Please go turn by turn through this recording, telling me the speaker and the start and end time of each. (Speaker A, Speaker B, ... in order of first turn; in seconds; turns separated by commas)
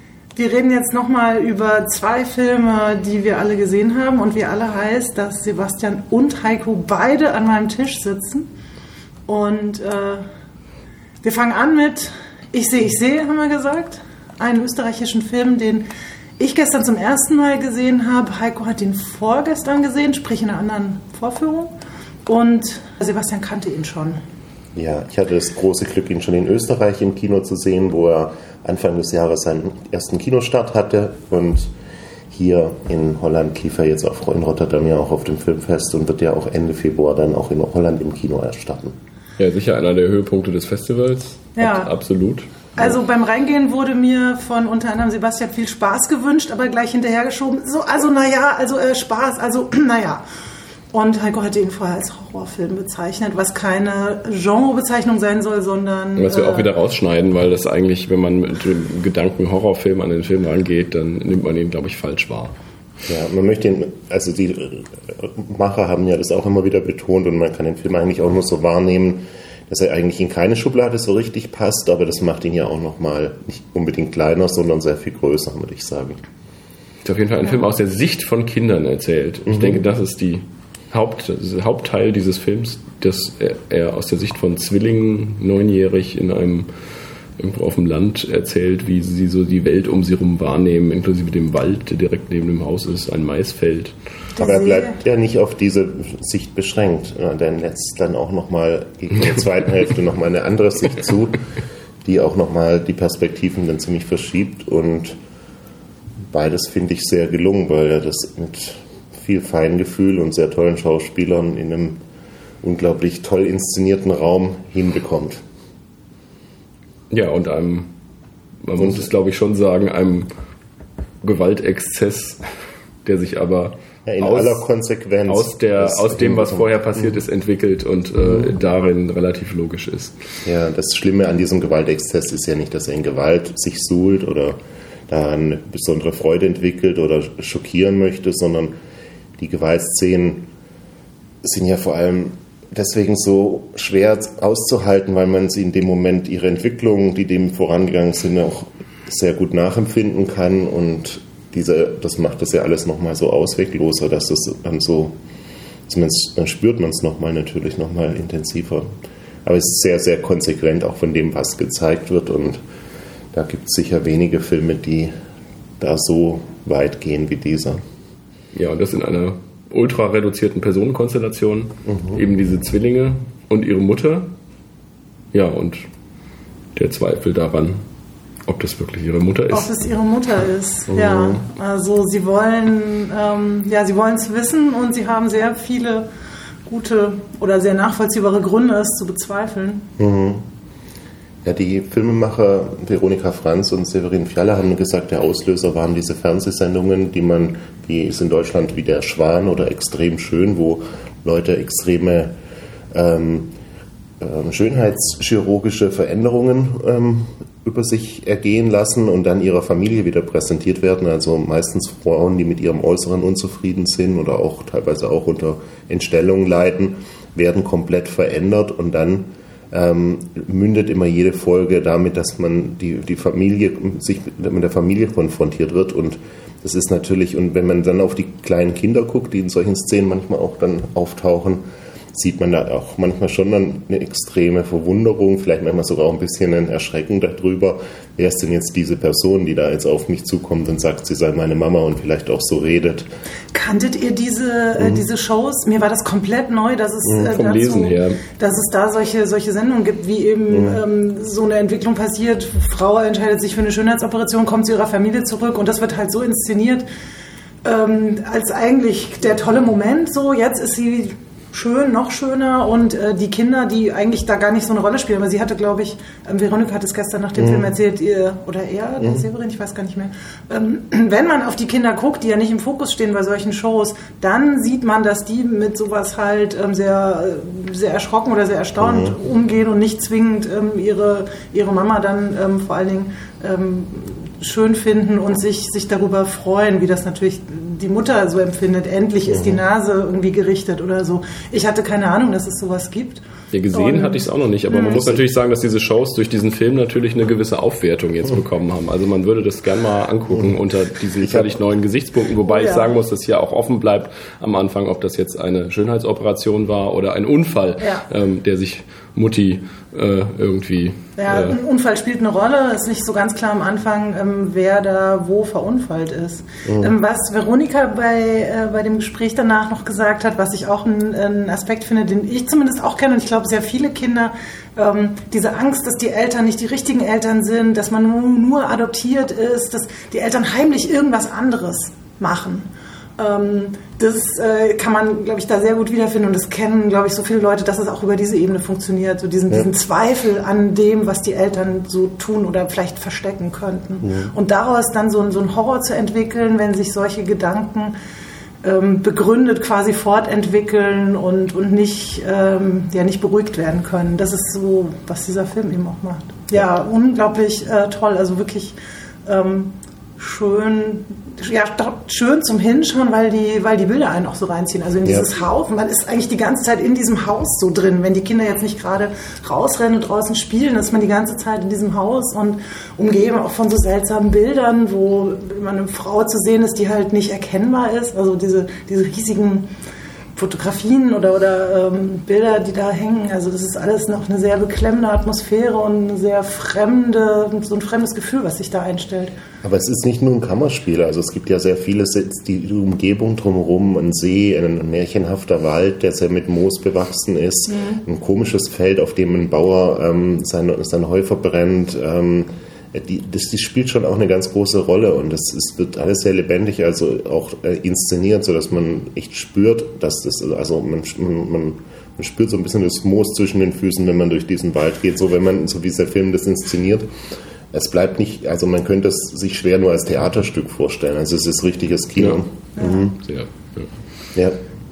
Speaker A: 0.3-8.5, Speaker A: 9.3-10.2, Speaker A: 11.2-15.9, Speaker A: 16.4-21.7, Speaker A: 22.2-24.2, Speaker B: 24.7-31.7, Speaker B: 32.3-39.0, Speaker C: 39.4-42.7, Speaker A: 41.6-41.9, Speaker A: 42.8-50.2, Speaker A: 50.9-56.7, Speaker C: 56.1-62.5, Speaker B: 63.0-76.2, Speaker C: 77.0-86.7, Speaker B: 79.5-79.8, Speaker C: 87.4-93.9, Speaker A: 94.3-95.0, Speaker B: 94.4-101.4, Speaker B: 102.0-105.2, Speaker B: 106.3-112.0, Speaker B: 112.6-115.4, Speaker C: 117.1-117.9, Speaker C: 118.6-120.3, Speaker B: 118.8-119.0, Speaker C: 121.2-122.4, Speaker C: 123.0-124.6, Speaker B: 124.0-127.2, Speaker C: 125.3-130.2, Speaker B: 128.1-128.5, Speaker B: 130.4-138.7, Speaker B: 139.4-140.5, Speaker B: 141.4-155.2, Speaker B: 155.9-158.9, Speaker B: 159.4-162.6, Speaker B: 163.3-165.1, Speaker B: 165.8-167.8, Speaker C: 168.5-174.3, Speaker B: 171.8-172.2, Speaker C: 175.3-175.9, Speaker C: 176.8-177.8, Speaker C: 178.4-179.7, Speaker A: 179.5-186.1, Speaker B: 180.9-181.4, Speaker A: 186.7-189.9, Speaker B: 190.0-190.4, Speaker B: 191.4-202.3, Speaker B: 202.9-203.5, Speaker B: 204.2-243.1, Speaker A: 243.5-256.9, Speaker B: 244.8-245.0, Speaker C: 247.2-248.2, Speaker B: 250.5-250.8, Speaker A: 257.6-295.0, Speaker B: 267.4-267.7, Speaker B: 278.8-279.2, Speaker B: 289.3-289.6, Speaker C: 293.5-311.6, Speaker B: 294.9-295.2, Speaker B: 301.2-301.6, Speaker A: 302.4-302.9, Speaker A: 307.8-308.1, Speaker A: 311.2-347.9, Speaker B: 316.6-316.9, Speaker B: 344.0-344.3, Speaker A: 348.6-379.7, Speaker A: 380.4-389.3, Speaker B: 389.6-417.1, Speaker A: 397.7-398.0, Speaker B: 417.7-423.2, Speaker A: 422.8-423.0, Speaker C: 423.1-423.9